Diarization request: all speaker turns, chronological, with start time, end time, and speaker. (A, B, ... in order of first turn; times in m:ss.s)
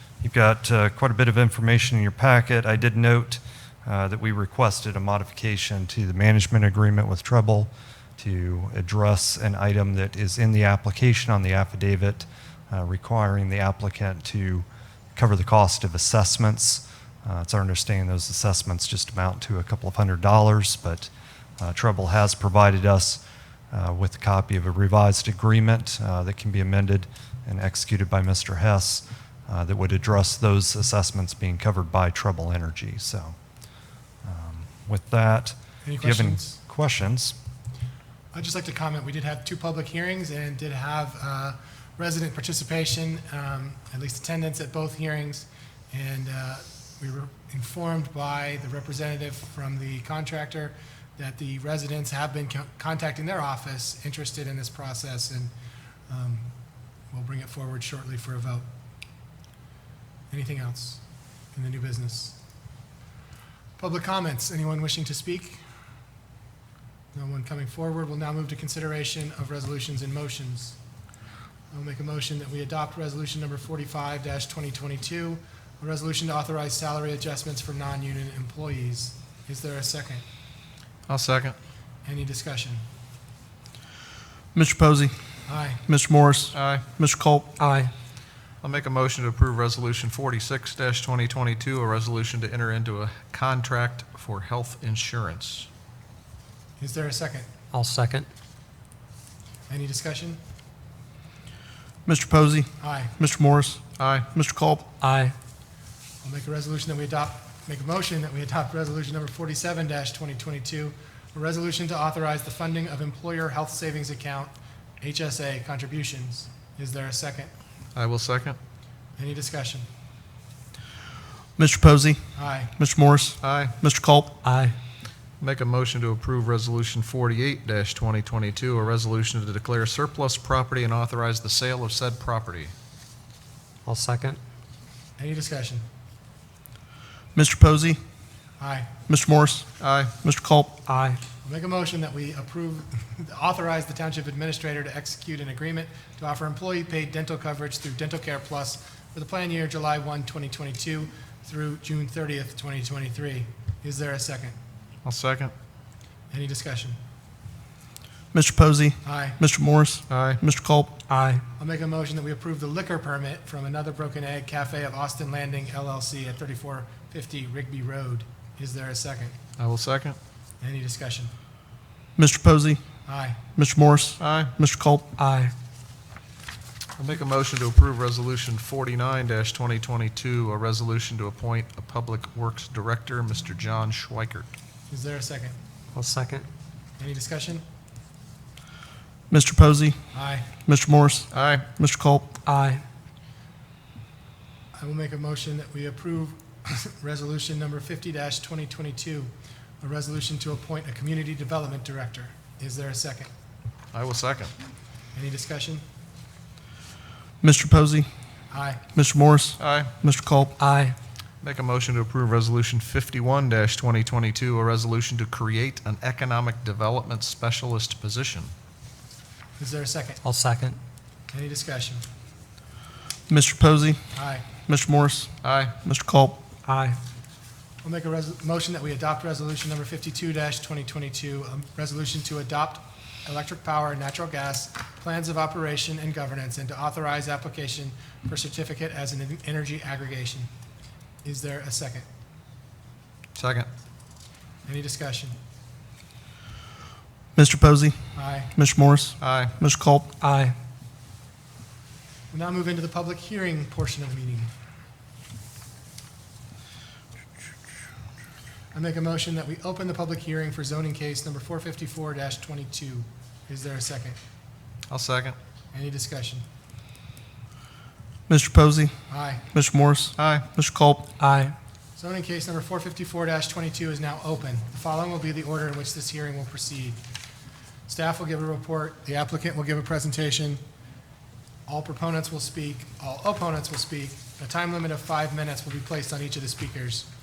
0:00.2-0:33.4 A
0:34.2-0:37.4 A
0:35.8-0:36.6 B
0:38.3-0:55.5 B
0:56.1-0:56.5 B
0:57.1-0:58.6 B
1:00.3-1:01.0 B
1:01.5-1:02.4 B
1:03.8-1:05.6 B
1:07.1-1:10.8 B
1:11.7-1:20.2 B
1:21.1-1:21.6 C
1:22.0-1:22.8 B
1:24.5-1:25.1 D
1:25.5-1:25.8 B
1:25.8-1:27.5 D
1:26.5-1:26.8 C
1:27.6-1:27.9 E
1:28.6-1:35.7 C
1:36.8-1:37.5 B
1:37.7-1:38.3 E
1:39.7-1:40.4 B
1:42.0-1:43.8 D
1:42.8-1:43.1 B
1:44.0-1:44.3 C
1:44.3-1:44.8 D
1:45.0-1:45.3 E
1:46.2-1:57.5 B
1:57.9-1:58.6 C
1:59.2-1:59.9 B
2:01.6-2:02.2 D
2:02.4-2:02.7 B
2:02.8-2:04.3 D
2:03.4-2:03.7 C
2:04.4-2:04.8 E
2:05.4-2:12.7 C
2:13.8-2:14.4 E
2:15.2-2:15.8 B
2:17.3-2:18.0 D
2:18.6-2:18.9 B
2:19.1-2:19.7 D
2:19.8-2:20.1 C
2:20.2-2:20.7 D
2:20.8-2:21.2 E
2:21.4-2:34.6 B
2:35.0-2:35.5 C
2:36.3-2:37.0 B
2:38.3-2:40.9 D
2:39.0-2:39.4 B
2:40.1-2:40.4 C
2:41.1-2:41.4 E
2:41.6-2:49.4 B
2:49.6-2:50.2 C
2:50.6-2:51.3 B
2:52.2-2:52.8 D
2:53.0-2:53.4 B
2:53.5-2:55.0 D
2:54.2-2:54.5 C
2:55.2-2:55.5 E
2:57.0-3:04.5 C
3:04.9-3:05.6 B
3:05.9-3:06.4 E
3:07.0-3:07.6 B
3:09.3-3:10.0 D
3:10.1-3:10.5 B
3:10.6-3:12.3 D
3:11.3-3:11.7 C
3:12.4-3:12.8 E
3:14.7-3:23.3 B
3:23.9-3:24.5 C
3:25.1-3:25.8 B
3:27.4-3:28.1 D
3:28.5-3:28.8 B
3:28.9-3:30.5 D
3:29.6-3:29.9 C
3:30.6-3:31.0 E
3:31.4-3:38.5 C
3:39.6-3:40.2 B
3:40.2-3:40.8 E
3:41.3-3:42.0 B
3:43.3-3:44.0 D
3:44.1-3:44.4 B
3:44.7-3:45.3 D
3:45.4-3:45.8 C
3:45.8-3:46.4 D
3:46.6-3:47.0 E
3:47.8-4:00.5 B
4:01.2-4:02.1 B
4:03.3-4:03.7 C
4:04.6-4:05.4 B
4:07.3-4:08.0 D
4:08.1-4:08.5 B
4:08.5-4:10.1 D
4:09.2-4:09.5 C
4:10.2-4:10.6 E
4:12.3-4:14.5 B
4:18.7-4:24.2 B
4:24.9-4:25.4 C
4:25.7-4:26.4 B
4:28.3-4:28.9 D
4:29.1-4:29.4 B
4:29.5-4:31.1 D
4:30.2-4:30.5 C
4:31.2-4:31.5 E
4:32.0-4:37.0 B
4:37.9-4:40.6 B
4:41.7-4:47.1 B